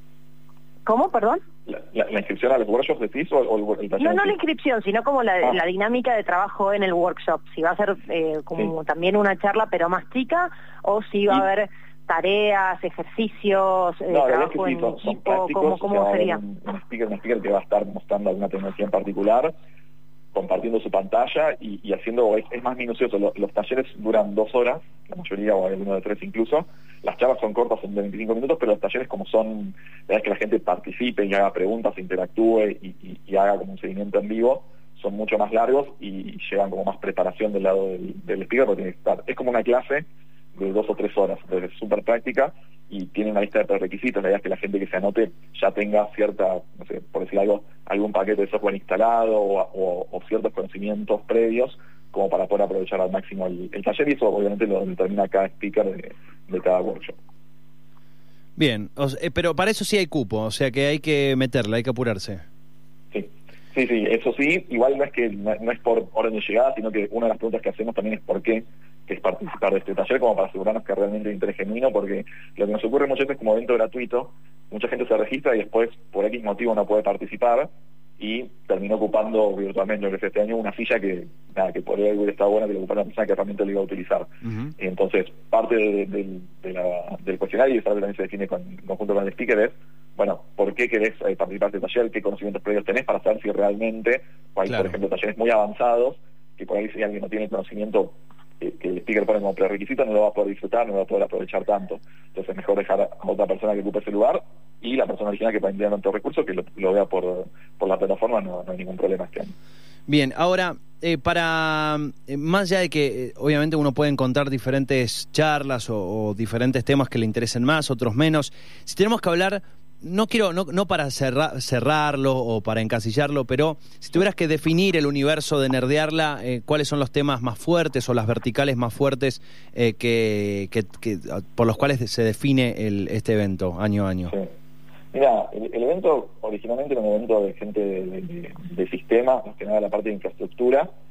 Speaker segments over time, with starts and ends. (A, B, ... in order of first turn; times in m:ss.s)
0:00.8-0:01.4 A
0:01.6-0:04.4 B
0:04.0-0:16.4 A
0:14.1-0:19.5 B
0:20.3-0:57.2 B
0:58.6-1:02.4 C
1:03.1-1:49.5 B
1:34.6-1:35.0 C
1:50.1-2:14.3 C
2:15.1-2:20.9 B